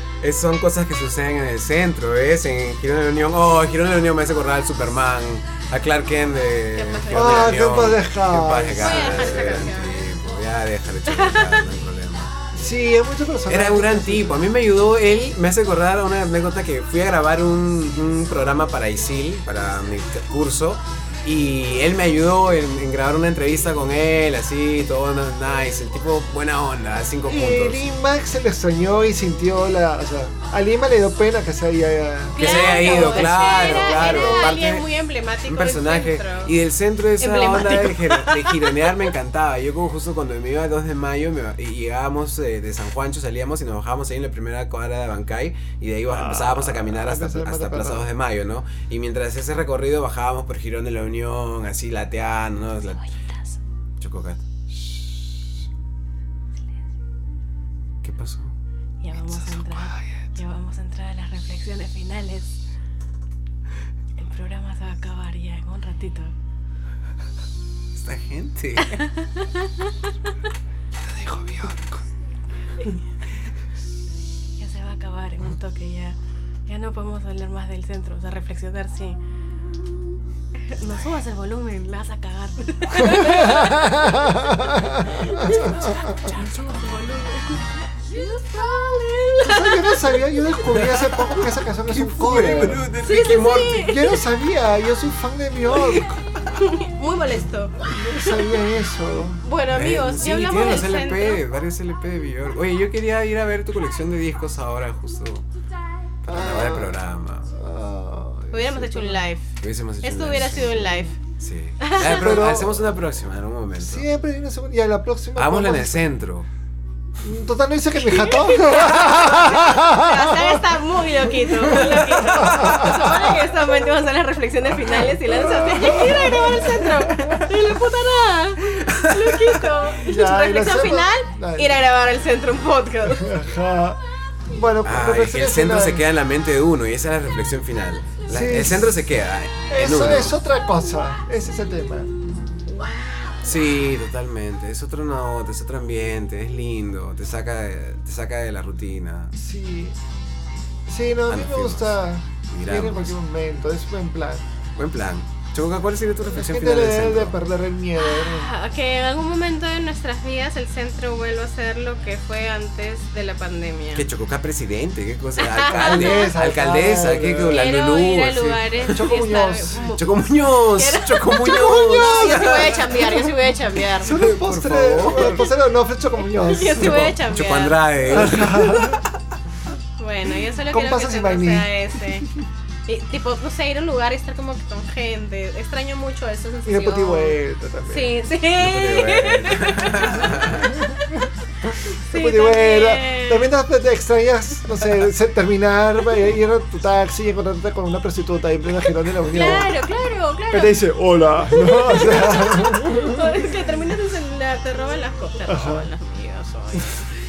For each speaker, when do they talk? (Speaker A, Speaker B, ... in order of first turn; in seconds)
Speaker A: 0.2-12.3, 13.5-27.8, 32.4-34.9, 35.4-53.0, 54.0-54.4, 58.0-58.5, 68.0-69.0, 90.6-93.9, 95.8-96.0, 99.7-105.5, 106.2-107.5, 109.6-114.0, 115.4-116.5, 122.6-122.9, 128.9-129.5, 134.8-140.4, 143.4-149.3, 151.3-152.0, 152.5-153.1, 154.8-157.4, 163.9-168.9, 170.0-173.2, 174.1-175.4, 176.9-179.2, 188.6-190.8
Speaker B: 6.8-7.7, 8.8-10.0, 11.1-11.6, 32.4-36.5, 37.2-39.1, 59.0-62.6, 64.2-66.3, 68.8-69.9, 74.6-76.2, 76.7-79.2, 80.7-90.5, 93.0-94.3, 96.5-98.8, 99.4-101.4, 108.5-109.5, 110.0-111.2, 111.8-112.4, 118.0-133.3, 142.7-143.7, 158.0-164.1, 165.4-166.3, 167.5-174.1, 176.4-179.0, 180.0-182.3, 182.9-190.3, 192.1-193.5, 199.3-200.8, 201.5-207.1
Speaker C: 7.1-9.6, 12.5-14.4, 27.3-33.5, 46.1-48.1, 59.4-60.0, 71.0-72.0, 83.0-86.3, 89.4-92.8, 93.7-96.2, 97.9-99.4, 106.3-107.0, 107.5-109.3, 112.0-112.8, 113.8-116.1, 117.2-120.7, 121.3-123.5, 125.3-127.6, 130.0-131.8, 133.2-134.0, 134.5-136.1, 138.3-139.0, 139.7-142.1, 149.4-150.0, 150.9-154.4, 156.3-158.5, 165.8-167.6, 168.9-169.9, 171.8-173.4, 174.0-177.2, 178.1-179.0, 180.7-182.0, 186.7-188.2, 190.3-191.0, 192.1-199.8, 200.5-203.5, 205.5-205.9